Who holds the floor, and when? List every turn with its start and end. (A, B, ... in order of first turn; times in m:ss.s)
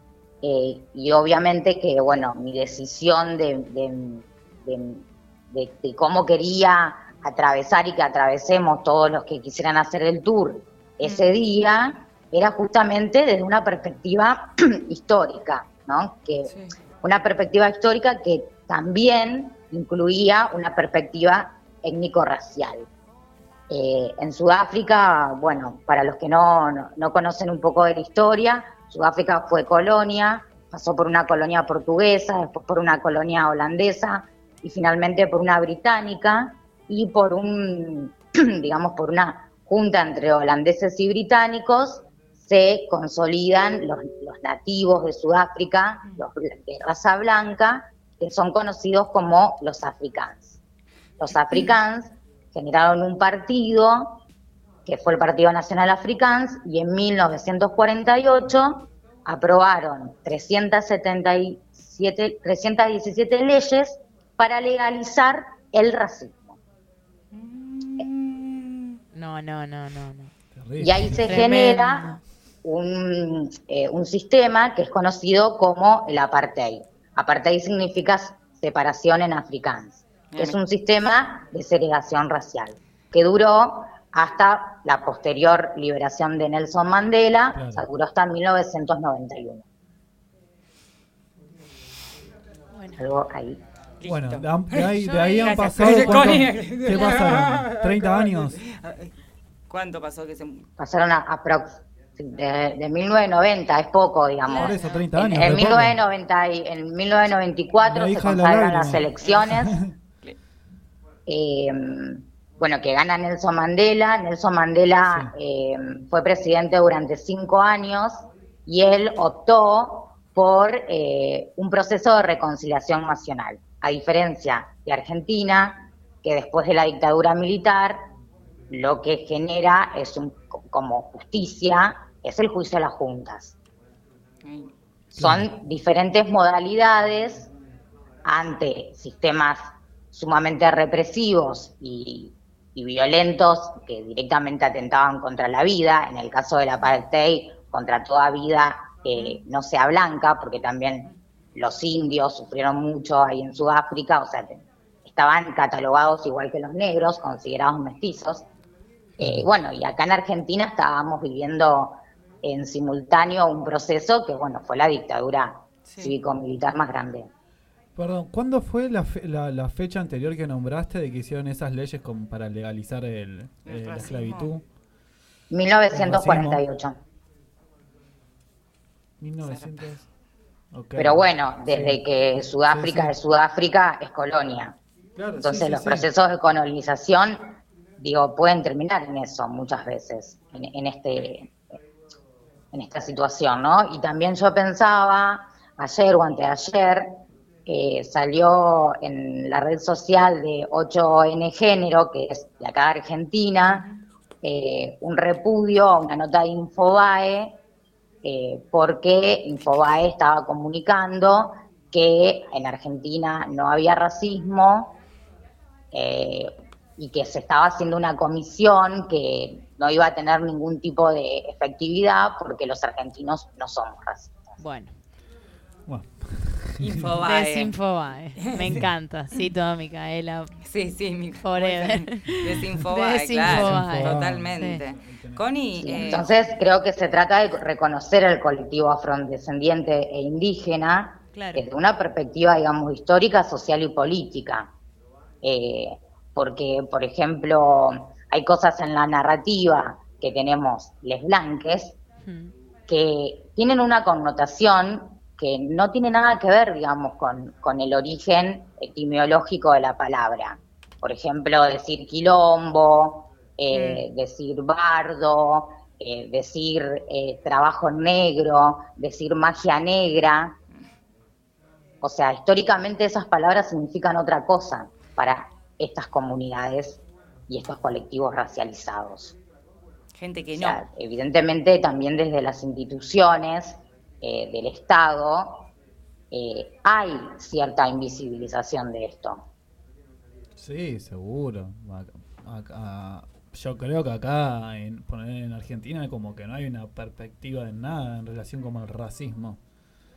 0:00.4-0:22.9 A
0:11.0-0:11.4 B
0:16.4-0:16.7 B
0:23.7-0:50.6 A
0:51.2-0:54.2 A
0:54.9-1:06.6 A
1:07.3-1:09.0 B
1:09.1-1:10.3 C
1:10.6-1:11.4 D
1:10.8-1:12.1 A
1:11.2-1:12.2 C
1:12.6-1:29.6 A
1:20.3-1:20.6 B
1:27.5-1:27.9 D
1:33.0-1:33.6 A
1:34.0-1:39.1 B
1:34.1-1:38.6 D
1:39.7-1:40.7 B
1:40.8-1:49.7 A
1:44.5-1:46.0 D
1:44.5-1:45.0 C
1:47.8-1:49.9 D
1:49.2-1:49.5 B
1:51.3-2:08.0 A
1:55.1-1:55.3 D
2:08.7-2:13.6 A
2:14.4-2:14.7 B
2:15.2-2:15.5 D
2:15.2-2:17.5 A
2:18.2-2:38.5 A
2:29.2-2:29.4 B
2:39.2-2:47.3 A
2:39.2-2:39.5 D
2:45.9-2:46.2 B
2:48.0-2:54.6 D
2:53.6-2:54.5 B
2:55.5-2:57.0 A
2:55.9-2:56.6 D
2:59.2-3:00.1 D
2:59.4-2:59.8 B
3:00.7-3:03.1 D
3:01.0-3:04.8 A
3:05.2-3:06.1 D
3:05.4-3:11.7 A
3:12.7-3:23.8 A
3:23.6-3:24.0 B
3:24.4-3:27.6 A
3:28.2-3:35.0 A
3:35.9-3:44.6 A
3:44.6-3:44.9 C
3:45.9-3:47.0 D
3:46.8-3:47.7 B
3:47.3-3:50.5 C
3:48.5-3:48.8 B
3:50.6-3:56.3 B
3:51.4-3:54.8 C
3:53.4-3:55.4 D
3:55.8-4:04.7 A
4:01.3-4:01.7 C
4:05.4-4:12.0 A
4:12.2-4:12.5 C
4:12.9-4:30.6 A
4:32.0-4:39.4 A
4:40.2-4:40.8 B
4:40.5-4:45.7 A
4:46.3-4:49.5 A
4:50.6-4:59.6 D